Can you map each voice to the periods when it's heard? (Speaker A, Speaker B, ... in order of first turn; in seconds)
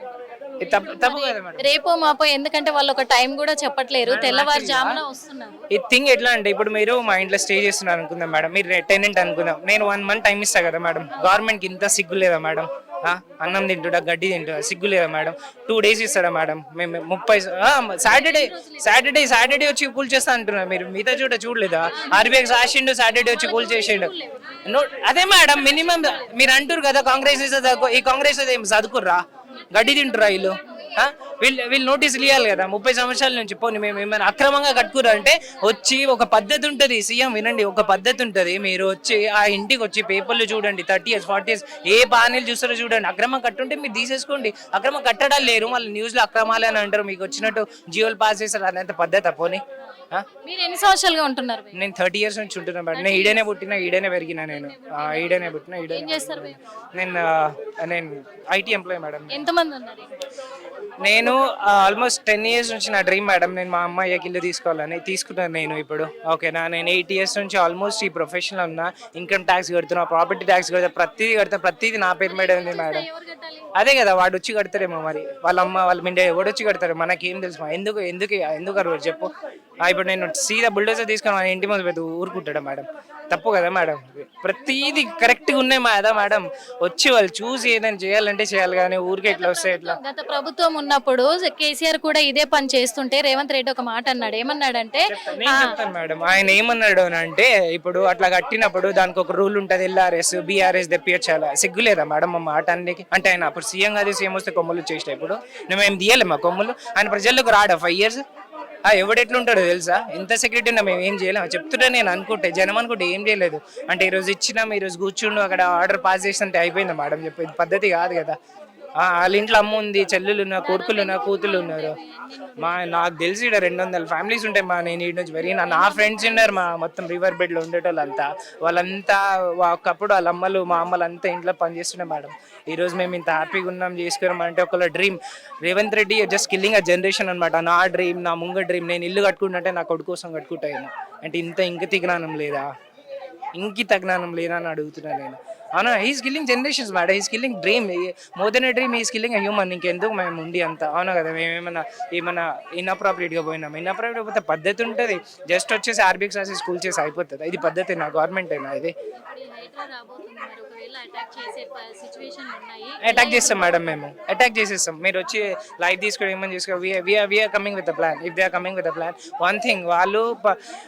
Speaker A: 0.6-1.6, 4.0-4.9, 5.7-24.1, 24.7-49.6, 51.7-59.4, 61.0-73.0, 73.8-79.3, 79.8-90.0, 95.1-108.2, 108.8-118.4, 119.0-122.0, 122.6-142.7, 143.6-158.9, 163.0-170.5
Speaker B: 0.6-5.6, 18.0-19.2, 21.9-22.6, 23.2-24.4, 50.4-51.8, 52.9-56.6, 59.3-60.1, 72.2-73.7, 89.3-95.7, 120.6-123.0, 125.6-126.6, 159.1-163.9